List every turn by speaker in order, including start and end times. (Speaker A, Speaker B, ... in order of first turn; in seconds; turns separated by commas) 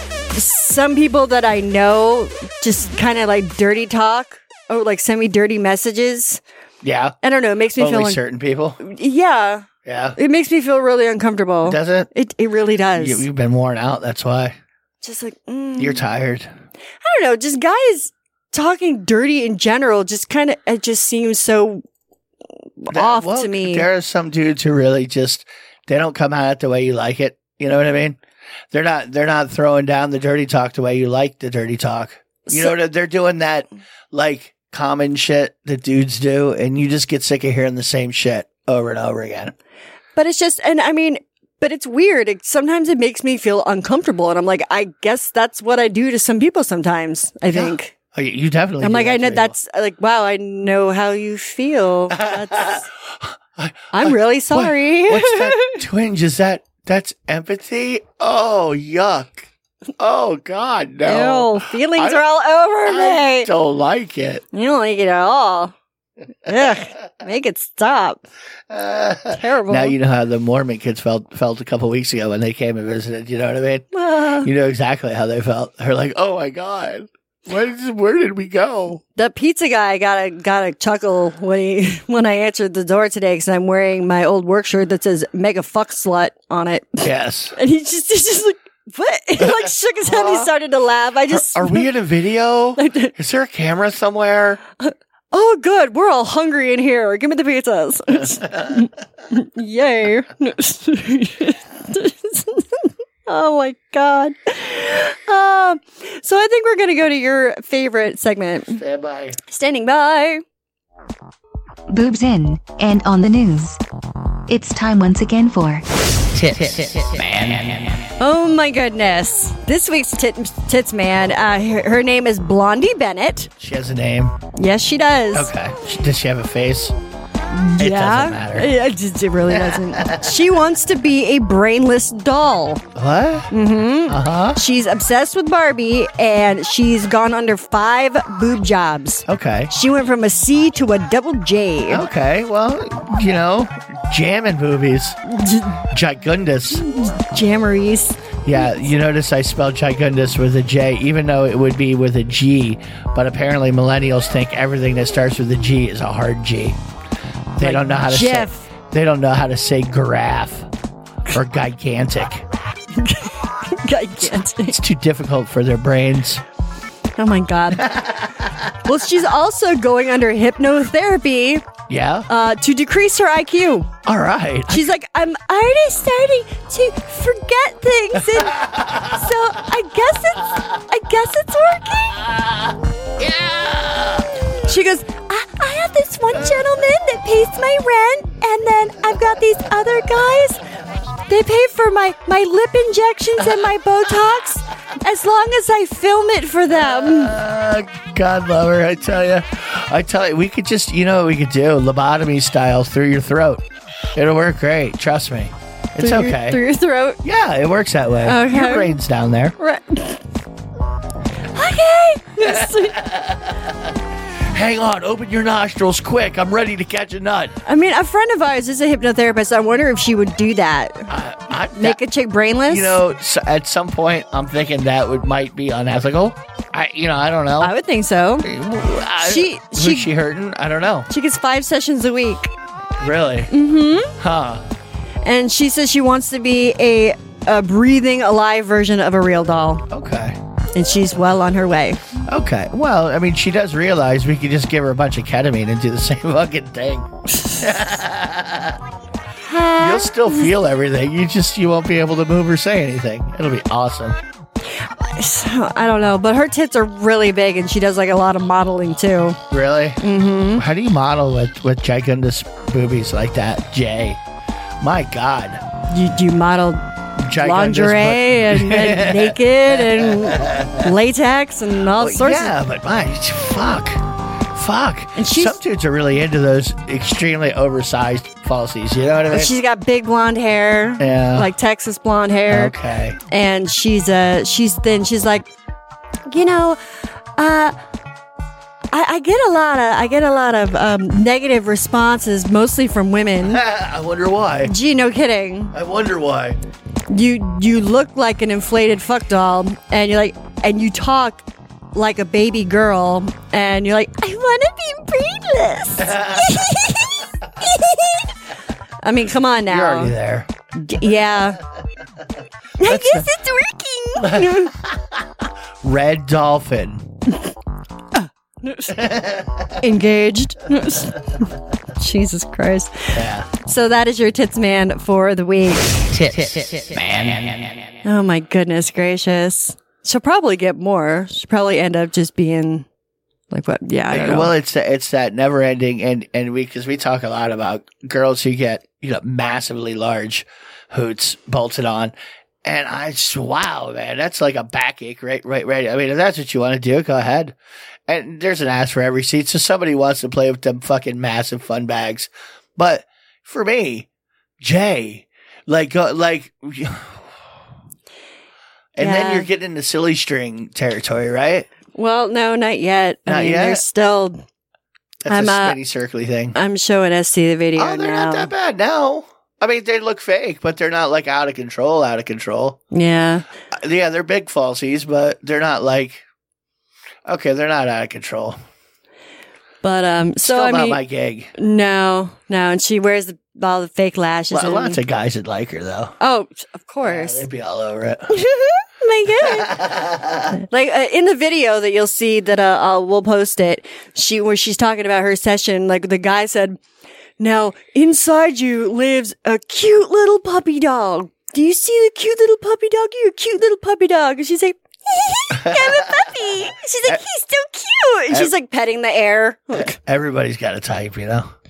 Speaker A: 0.3-6.4, Speaker B: 6.8-7.2, Speaker A: 7.2-8.2, Speaker B: 7.8-8.8, Speaker A: 8.8-13.2, Speaker B: 9.8-10.2, Speaker B: 11.6-12.1, Speaker B: 12.9-14.6, Speaker A: 15.0-16.0, Speaker B: 15.8-16.5, Speaker A: 17.0-21.8, Speaker A: 22.8-23.9, Speaker B: 22.9-28.2, Speaker B: 28.7-39.5, Speaker A: 32.5-32.7, Speaker A: 40.1-47.9, Speaker B: 47.5-49.5, Speaker A: 48.8-52.8, Speaker B: 52.1-59.5, Speaker A: 53.9-55.8, Speaker B: 60.0-62.2, Speaker A: 61.0-63.5, Speaker B: 62.8-64.4, Speaker A: 64.5-65.7, Speaker A: 66.5-68.2, Speaker B: 68.7-73.9, Speaker A: 69.3-70.0, Speaker A: 73.9-74.5, Speaker B: 74.4-79.0, Speaker A: 79.2-87.0, Speaker B: 87.0-87.5, Speaker A: 87.5-91.9, Speaker B: 89.4-90.5, Speaker B: 91.3-94.6, Speaker A: 92.8-93.1, Speaker A: 94.8-108.8, Speaker B: 98.2-98.8, Speaker B: 108.7-109.4, Speaker A: 109.5-110.4, Speaker C: 111.9-113.8, Speaker C: 114.5-115.8, Speaker C: 116.3-117.1, Speaker B: 116.7-118.1, Speaker A: 118.2-123.5, Speaker B: 123.6-124.4, Speaker A: 124.5-125.5, Speaker B: 125.3-127.0, Speaker A: 127.5-132.8, Speaker B: 127.8-128.7, Speaker B: 129.5-130.4, Speaker B: 132.9-133.5, Speaker A: 133.5-142.0, Speaker B: 134.1-134.6, Speaker B: 139.3-139.7, Speaker B: 141.9-145.2, Speaker A: 145.2-145.8, Speaker B: 145.9-146.8, Speaker A: 146.7-148.8, Speaker B: 148.4-156.8, Speaker B: 157.6-160.7, Speaker A: 157.6-158.7, Speaker B: 161.3-162.4, Speaker A: 162.9-164.8, Speaker B: 164.2-166.4, Speaker A: 167.2-168.0, Speaker B: 167.8-168.7, Speaker A: 168.8-171.7, Speaker B: 171.9-172.3, Speaker A: 172.3-173.9, Speaker B: 174.0-174.9, Speaker A: 174.7-182.2, Speaker B: 178.2-179.2, Speaker B: 180.5-180.8, Speaker B: 182.2-184.3, Speaker A: 184.6-190.6, Speaker A: 191.3-197.3, Speaker B: 196.7-206.6, Speaker A: 206.0-207.2, Speaker B: 207.2-209.5, Speaker A: 208.2-208.9, Speaker A: 209.6-210.2, Speaker A: 211.5-213.0, Speaker B: 212.4-217.6, Speaker A: 217.7-221.1, Speaker B: 221.1-222.0, Speaker A: 221.8-223.0, Speaker B: 222.7-227.7, Speaker A: 227.6-228.5, Speaker B: 228.4-231.1, Speaker A: 229.2-230.1, Speaker A: 231.1-232.5, Speaker B: 233.0-233.5, Speaker A: 233.5-234.1, Speaker B: 234.2-234.7, Speaker A: 235.2-239.8, Speaker B: 239.9-240.4, Speaker A: 240.7-242.1, Speaker B: 242.3-248.8, Speaker A: 249.4-250.5, Speaker B: 249.8-254.2, Speaker A: 254.8-259.4, Speaker B: 259.5-260.0, Speaker A: 260.0-260.6, Speaker B: 260.5-264.2, Speaker B: 264.8-265.6, Speaker A: 265.9-266.8, Speaker B: 267.2-270.9, Speaker A: 267.4-272.5, Speaker B: 271.9-279.5, Speaker A: 275.1-275.6, Speaker A: 279.3-282.7, Speaker B: 281.0-281.5, Speaker B: 282.5-283.2, Speaker A: 283.3-285.5, Speaker A: 286.3-286.8, Speaker A: 287.4-287.8, Speaker A: 288.9-293.6, Speaker B: 293.4-294.7, Speaker A: 294.7-295.7, Speaker B: 295.7-296.6, Speaker A: 297.1-308.3, Speaker B: 306.0-306.8, Speaker A: 309.0-310.1, Speaker B: 309.7-310.5, Speaker A: 310.7-311.6, Speaker A: 312.8-314.7, Speaker B: 312.8-313.3, Speaker B: 314.2-317.1, Speaker A: 318.1-319.0, Speaker B: 318.9-319.8, Speaker A: 319.8-326.0, Speaker B: 323.1-323.5, Speaker B: 326.2-327.8, Speaker A: 328.0-332.9, Speaker A: 333.5-334.5, Speaker B: 334.1-347.5, Speaker B: 348.1-354.1, Speaker B: 354.6-357.2, Speaker B: 358.9-361.7, Speaker A: 359.0-359.5, Speaker A: 361.9-364.4, Speaker B: 363.2-363.8, Speaker B: 365.2-366.6, Speaker A: 365.3-365.8, Speaker A: 366.5-368.5, Speaker B: 367.8-372.8, Speaker A: 372.9-373.4, Speaker B: 373.7-376.2, Speaker B: 377.2-378.6, Speaker A: 379.8-381.0, Speaker B: 380.4-381.5, Speaker A: 381.6-385.0, Speaker B: 384.5-386.1, Speaker A: 386.2-387.4, Speaker B: 387.0-388.3, Speaker A: 388.3-389.8, Speaker B: 389.3-390.6, Speaker A: 390.5-396.8, Speaker A: 397.4-410.0, Speaker B: 405.5-406.3, Speaker B: 409.7-411.5